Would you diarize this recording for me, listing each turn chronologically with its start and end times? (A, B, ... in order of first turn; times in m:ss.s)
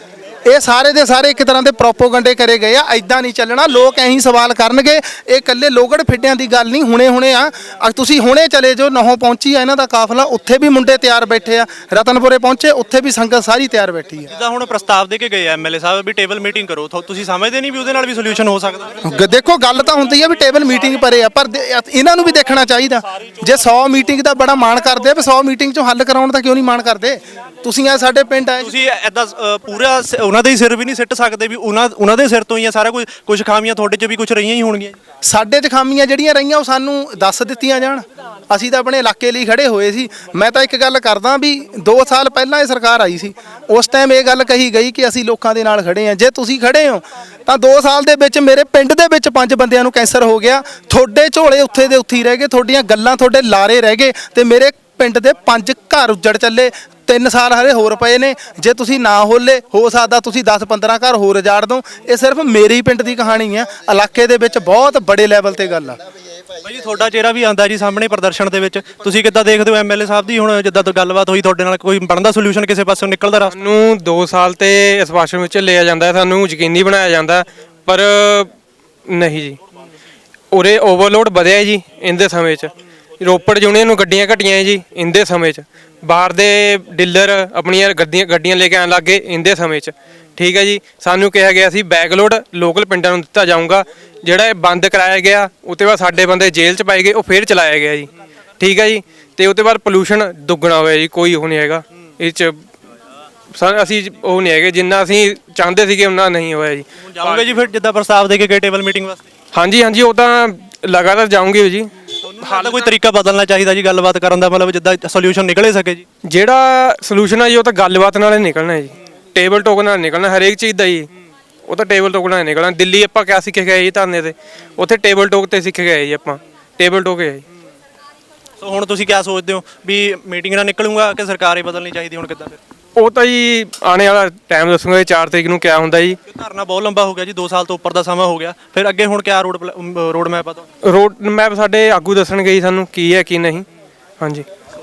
0:00.4-0:14.3 A
0:14.2-0:19.0 B
0:19.1-0:28.7 A
0:28.6-0:35.0 B
0:35.2-1:06.0 A
1:06.6-1:13.6 B
1:13.4-1:18.5 C
1:19.1-1:19.6 C
1:20.5-1:42.6 C
1:43.5-1:47.5 C
1:47.0-1:49.2 B
1:49.5-1:51.9 C
1:52.2-1:56.0 B
1:52.4-1:52.9 C
1:56.2-2:01.1 C
2:01.7-2:07.4 C
2:08.6-2:12.6 B
2:13.0-2:16.2 C
2:16.2-2:20.6 B
2:20.8-2:23.6 C
2:24.2-2:24.4 C